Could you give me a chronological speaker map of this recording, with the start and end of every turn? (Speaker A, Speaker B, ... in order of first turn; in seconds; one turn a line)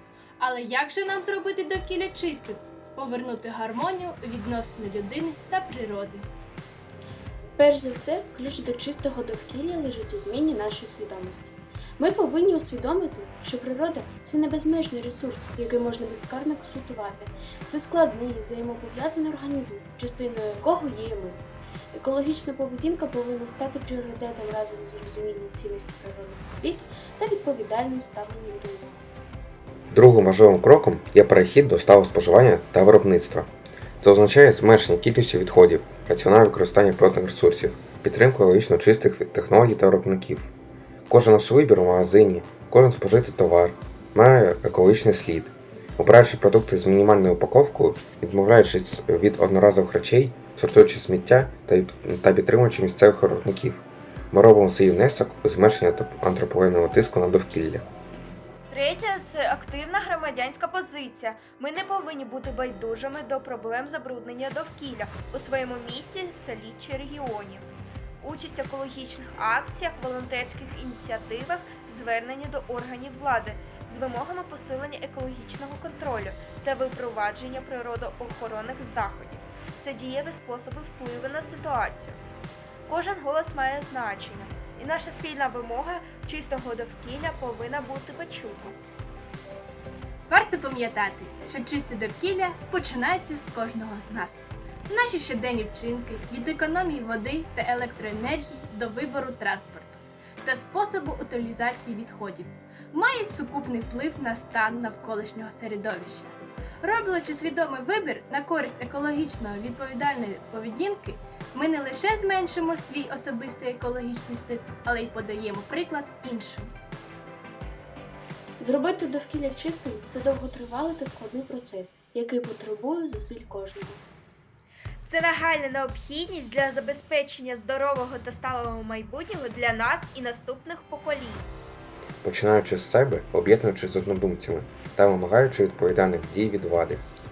Speaker A: 0.4-6.2
Speaker B: 7.6-29.0
Speaker C: 29.9-33.5
Speaker C: 34.0-40.4
Speaker C: 41.1-45.4
Speaker C: 46.1-53.8
Speaker C: 54.7-55.8
Speaker C: 56.4-57.8
Speaker D: 58.7-67.7
Speaker D: 68.2-82.2
Speaker D: 82.9-88.8
Speaker A: 90.3-106.3
Speaker A: 106.8-116.7
Speaker B: 118.6-124.0
Speaker D: 125.0-131.5
Speaker C: 132.2-137.0